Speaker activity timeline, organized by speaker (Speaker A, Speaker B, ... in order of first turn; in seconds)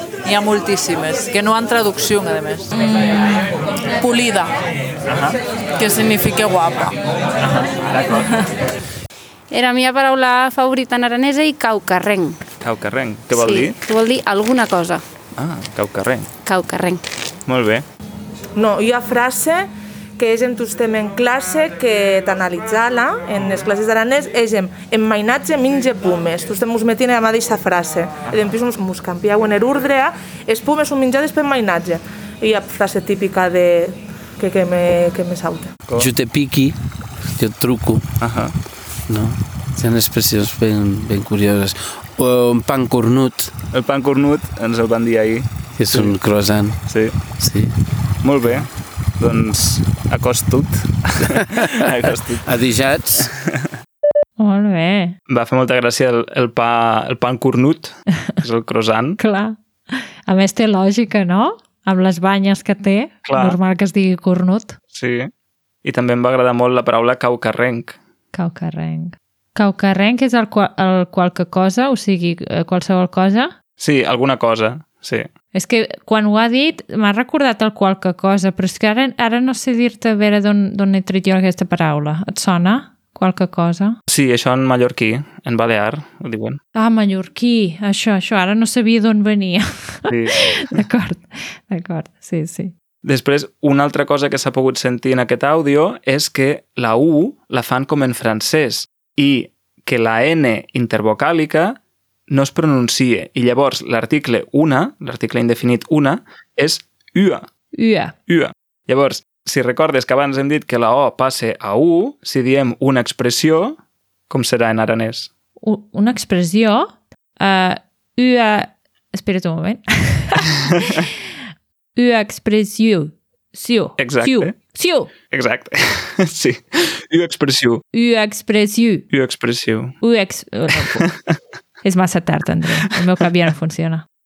Speaker A: 0.2-2.7
Speaker B: 2.8-4.5, 5.8-7.0
Speaker C: 5.1-5.4, 7.4-8.3, 12.6-13.8, 15.4-16.3, 17.5-17.9, 38.2-38.5, 43.7-46.1, 46.9-47.2, 48.2-52.5, 55.3-59.2, 63.3-63.6, 64.9-65.3, 65.8-68.0, 73.8-75.3, 84.1-86.6, 90.1-90.7, 93.0-101.8, 102.3-107.5, 108.3-113.8, 114.3-115.3, 124.0-124.5, 125.3-127.8, 129.1-130.0
Speaker D: 9.5-12.4, 13.3-15.0, 16.4-17.0
Speaker E: 18.6-35.7
Speaker F: 36.0-36.8, 37.3-38.1, 39.1-43.5, 45.8-47.8, 51.6-51.9, 52.5-53.4
Speaker G: 54.4-55.2, 59.2-64.8, 68.3-73.5, 75.5-84.0, 86.8-92.7, 107.8-108.1, 115.6-121.1, 122.0-125.1, 127.9-129.1, 130.0-131.1, 131.8-134.1